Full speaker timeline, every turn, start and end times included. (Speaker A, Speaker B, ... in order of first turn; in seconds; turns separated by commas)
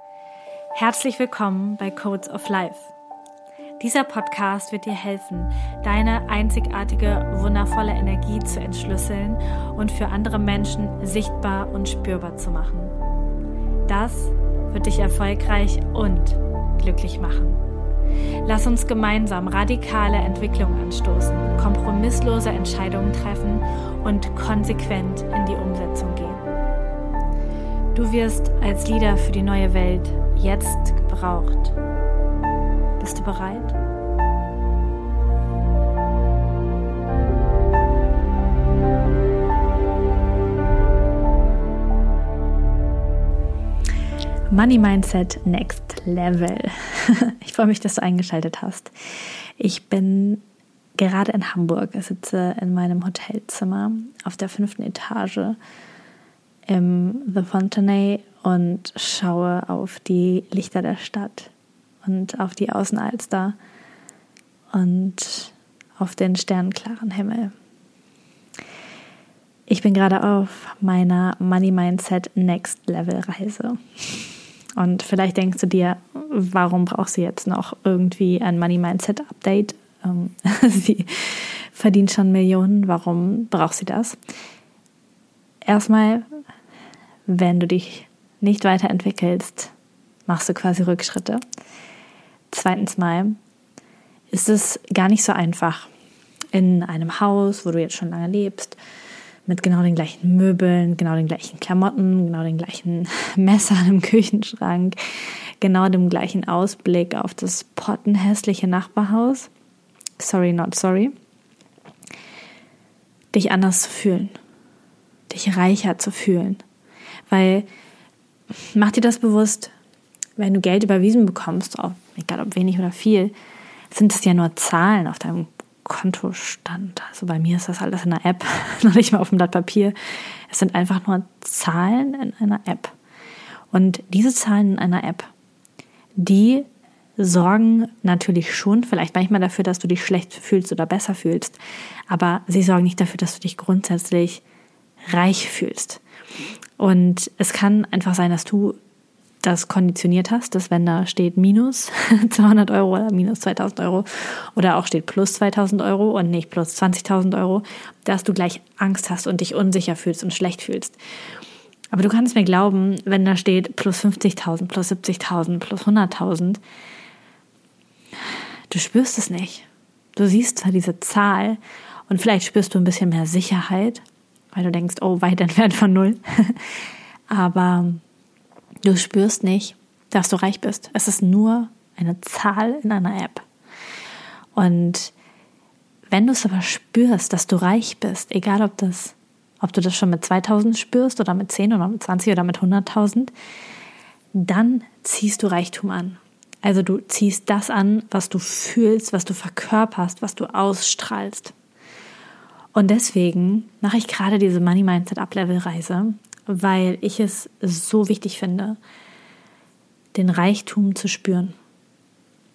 Speaker A: 0.8-2.9, Speaker A: 3.8-12.9, Speaker A: 13.9-17.6, Speaker A: 18.4-26.4, Speaker A: 27.9-31.8, Speaker A: 33.0-33.8, Speaker A: 44.5-48.9, Speaker A: 49.6-50.4, Speaker A: 51.0-55.6, Speaker A: 56.7-61.5, Speaker A: 62.0-63.5, Speaker A: 64.7-67.5, Speaker A: 69.7-74.2, Speaker A: 74.8-84.2, Speaker A: 85.7-86.2, Speaker A: 87.3-89.7, Speaker A: 90.3-91.4, Speaker A: 92.5-93.4, Speaker A: 94.3-95.9, Speaker A: 96.5-98.8, Speaker A: 99.5-105.0, Speaker A: 105.6-109.5, Speaker A: 110.2-111.1, Speaker A: 113.3-114.4, Speaker A: 115.3-116.6, Speaker A: 117.3-117.7, Speaker A: 118.7-119.7, Speaker A: 120.4-123.3, Speaker A: 123.9-129.9, Speaker A: 130.5-132.9, Speaker A: 133.7-135.3, Speaker A: 136.2-136.7, Speaker A: 137.2-141.6, Speaker A: 142.1-144.4, Speaker A: 145.1-146.0, Speaker A: 146.8-148.8, Speaker A: 149.4-161.0, Speaker A: 161.9-166.6, Speaker A: 168.7-176.7, Speaker A: 177.3-178.0, Speaker A: 178.8-183.4, Speaker A: 184.5-185.1, Speaker A: 186.1-193.3, Speaker A: 194.3-201.5, Speaker A: 202.7-208.8, Speaker A: 210.1-211.5